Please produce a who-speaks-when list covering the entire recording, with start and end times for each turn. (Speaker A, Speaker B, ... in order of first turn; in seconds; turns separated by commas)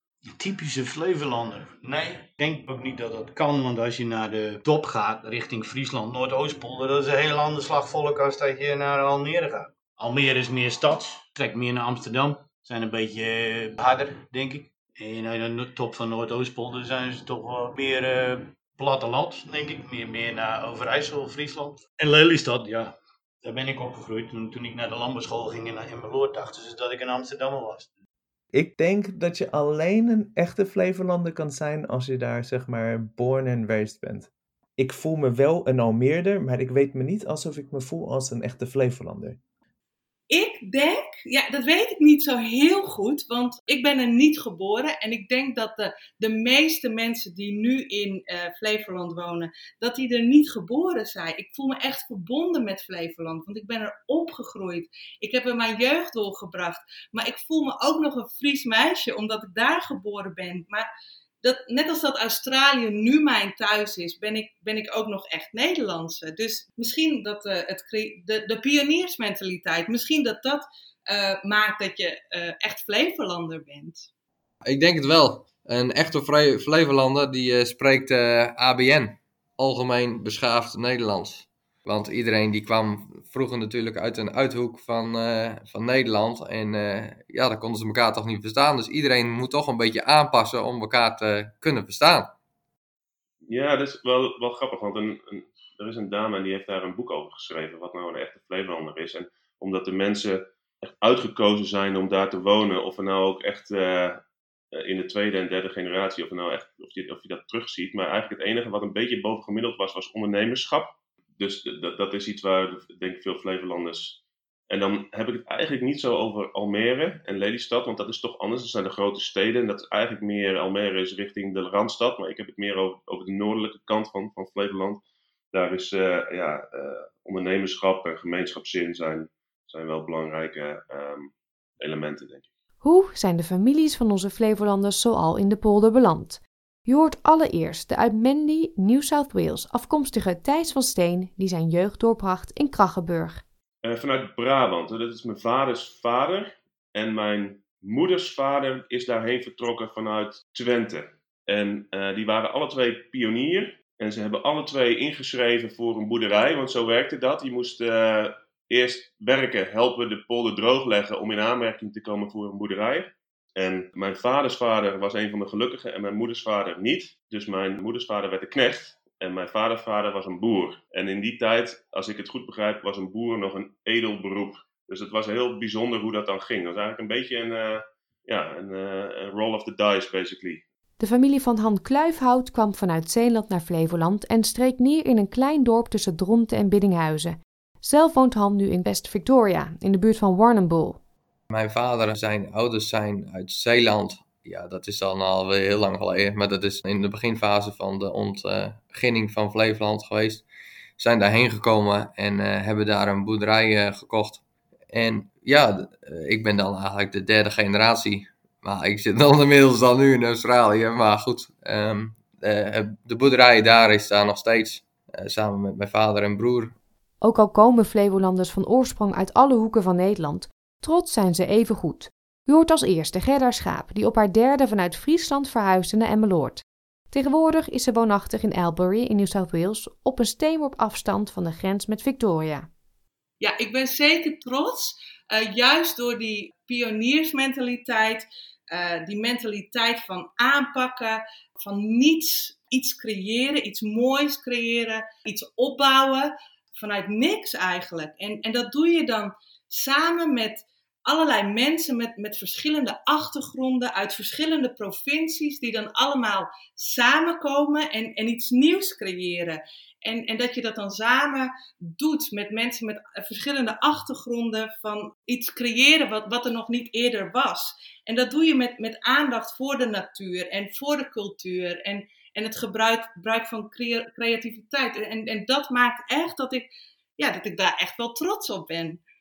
Speaker A: 0.3-27.9, Speaker B: 28.5-39.4, Speaker C: 40.3-60.9, Speaker C: 61.4-74.0, Speaker D: 74.6-92.3, Speaker E: 93.5-132.5, Speaker F: 132.8-143.4, Speaker E: 143.8-180.6, Speaker F: 181.0-191.0, Speaker D: 191.5-200.4, Speaker D: 201.0-216.7, Speaker F: 217.2-232.7, Speaker C: 233.4-276.7, Speaker C: 277.2-279.0